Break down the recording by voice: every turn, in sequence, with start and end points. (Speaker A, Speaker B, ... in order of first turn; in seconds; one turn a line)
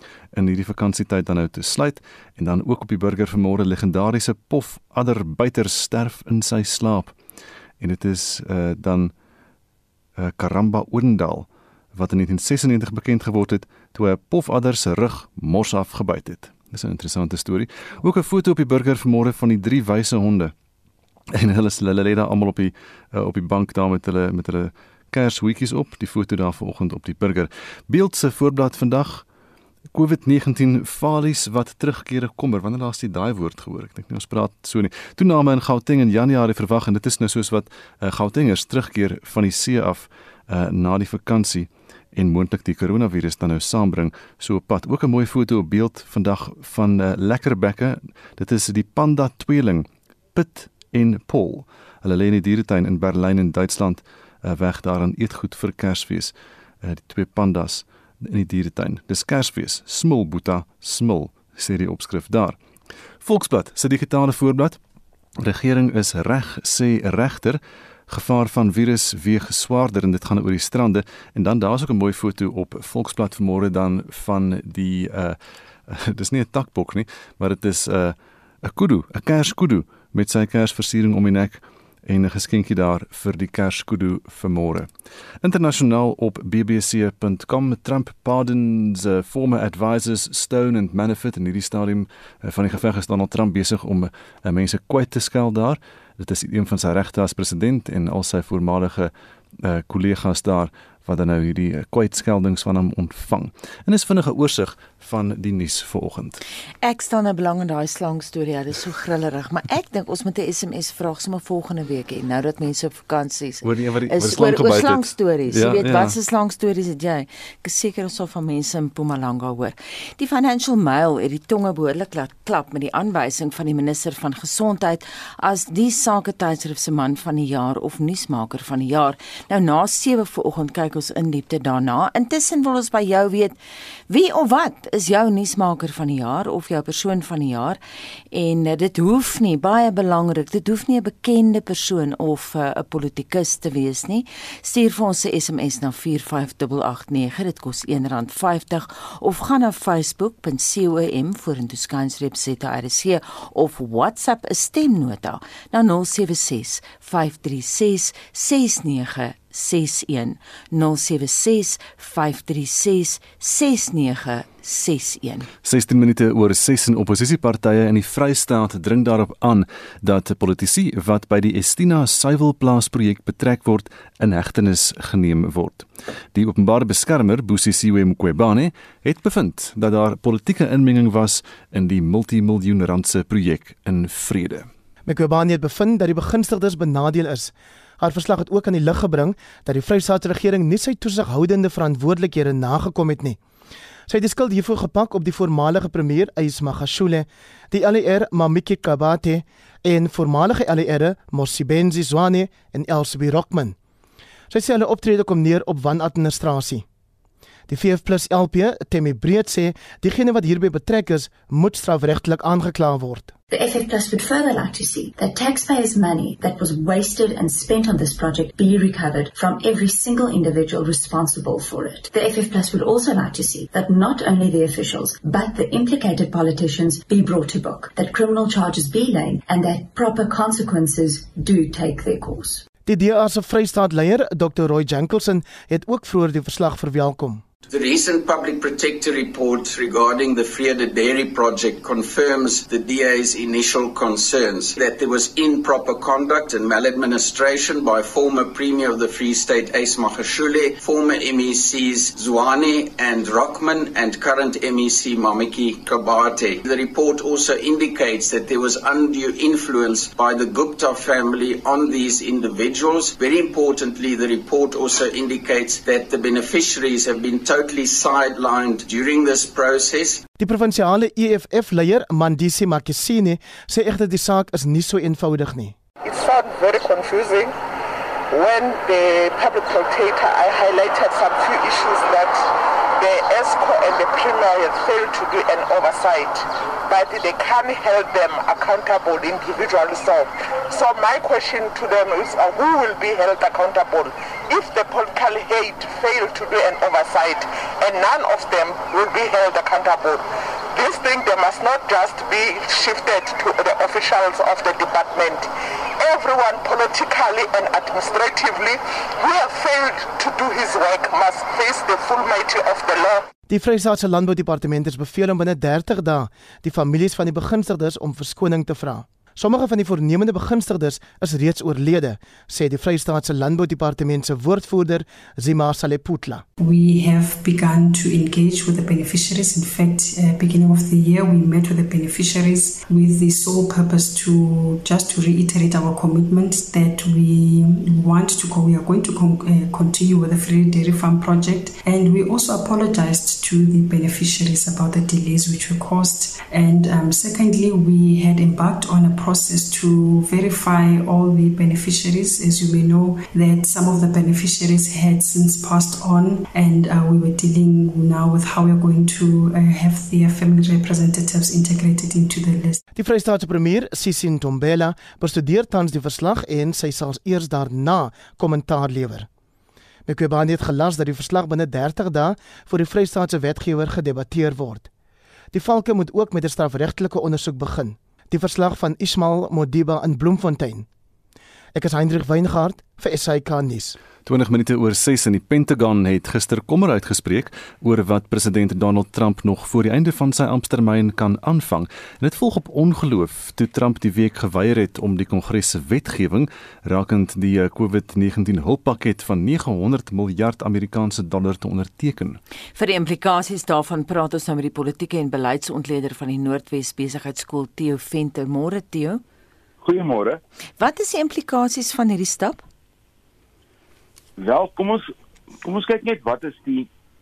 Speaker A: 0.3-7.1
Speaker A: 7.8-9.1
Speaker A: 10.2-20.5
Speaker A: 21.3-29.2
Speaker A: 29.9-62.6
Speaker A: 63.2-64.8
Speaker A: 65.4-75.4
Speaker A: 75.9-84.9
Speaker A: 85.4-106.4
Speaker B: 106.8-133.6
Speaker A: 113.6-116.2
Speaker B: 134.1-137.8
Speaker B: 138.3-165.5
Speaker A: 165.6-184.7
Speaker C: 185.1-193.4
Speaker C: 194.1-203.8
Speaker C: 204.5-206.8
Speaker C: 207.7-213.3
Speaker D: 213.5-232.6
Speaker C: 232.9-237.4
Speaker E: 237.7-270.2
Speaker C: 270.4-275.8
Speaker F: 276.1-277.6
Speaker F: 278.3-300.2
Speaker F: 300.7-305.5
Speaker F: 306.0-313.2
Speaker C: 313.5-326.4
Speaker G: 326.6-362.8
Speaker C: 363.0-369.3
Speaker C: 370.1-374.9
Speaker C: 375.5-380.9
Speaker C: 381.8-384.0
Speaker A: 384.3-402.4
Speaker B: 402.8-409.2
Speaker H: 409.8-410.4
Speaker B: 410.8-412.6
Speaker H: 414.4-415.1
Speaker H: 415.6-416.9